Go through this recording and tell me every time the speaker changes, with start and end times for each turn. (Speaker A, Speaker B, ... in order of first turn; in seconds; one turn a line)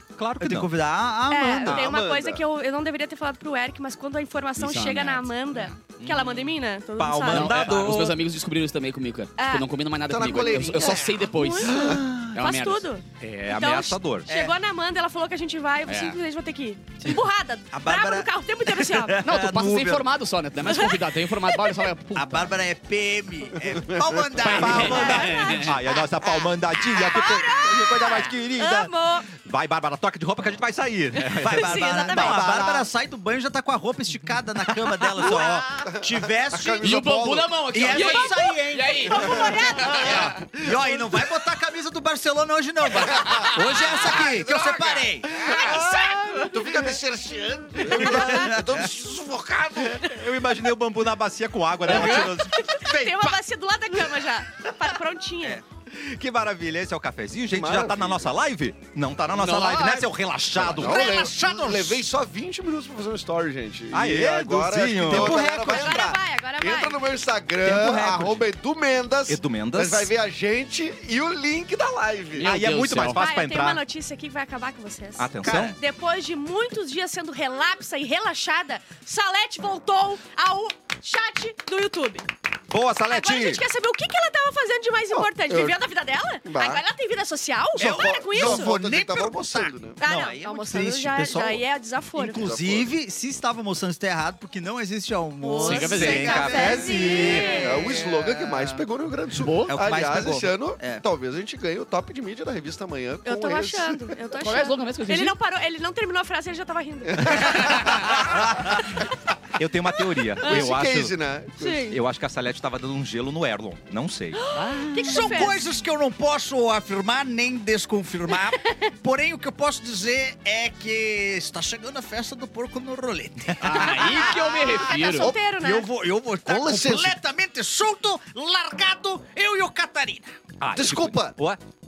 Speaker A: 0.2-0.8
Speaker B: 0.4-1.9
Speaker C: 1.3-7.6
Speaker D: 1.6-2.5
Speaker E: 4.6-5.8
Speaker A: 6.0-8.2
Speaker E: 7.2-11.8
Speaker C: 9.4-9.7
Speaker D: 10.1-12.0
Speaker C: 11.3-19.2
Speaker E: 12.3-12.9
Speaker A: 13.2-14.3
Speaker B: 14.3-14.6
Speaker E: 15.9-16.2
Speaker B: 17.7-20.1
Speaker E: 19.2-22.5
Speaker C: 20.6-21.9
Speaker B: 22.1-25.7
Speaker D: 23.7-24.5
Speaker E: 24.4-25.7
Speaker A: 24.6-32.9
Speaker C: 24.8-26.0
Speaker C: 26.9-29.3
Speaker C: 31.3-32.4
Speaker B: 31.4-37.0
Speaker C: 35.2-35.7
Speaker D: 35.8-38.0
Speaker E: 36.8-40.4
Speaker B: 37.7-46.3
Speaker C: 38.0-38.4
Speaker C: 39.1-40.1
Speaker D: 39.2-41.0
Speaker D: 43.3-50.1
Speaker B: 47.9-48.9
Speaker C: 48.1-48.5
Speaker A: 50.0-53.1
Speaker C: 51.9-55.6
Speaker A: 55.9-61.1
Speaker D: 57.5-58.3
Speaker E: 59.3-60.1
Speaker B: 60.5-62.1
Speaker D: 60.7-72.5
Speaker A: 63.9-66.1
Speaker B: 65.1-65.5
Speaker C: 65.1-67.1
Speaker B: 67.6-68.5
Speaker A: 69.3-70.1
Speaker E: 72.4-73.2
Speaker A: 72.4-73.8
Speaker C: 73.1-82.3
Speaker A: 75.2-75.8
Speaker B: 75.4-75.8
Speaker A: 82.7-83.6
Speaker C: 83.1-88.8
Speaker D: 85.1-85.8
Speaker D: 86.5-86.8
Speaker B: 87.8-91.6
Speaker D: 87.8-90.0
Speaker C: 90.0-92.5
Speaker B: 92.2-98.9
Speaker D: 92.2-92.9
Speaker C: 95.4-98.0
Speaker E: 95.6-96.5
Speaker A: 95.8-97.7
Speaker D: 96.6-104.2
Speaker E: 99.4-99.8
Speaker B: 99.7-101.0
Speaker C: 103.2-108.3
Speaker E: 104.4-105.3
Speaker D: 107.1-108.1
Speaker A: 108.1-108.9
Speaker A: 109.6-111.1
Speaker D: 110.4-111.9
Speaker C: 110.4-110.7
Speaker C: 111.6-112.0
Speaker A: 111.9-114.4
Speaker C: 114.3-115.7
Speaker E: 114.5-115.5
Speaker B: 114.9-130.4
Speaker E: 123.6-125.3
Speaker C: 123.9-125.9
Speaker D: 126.4-127.2
Speaker A: 130.6-131.6
Speaker D: 130.7-131.4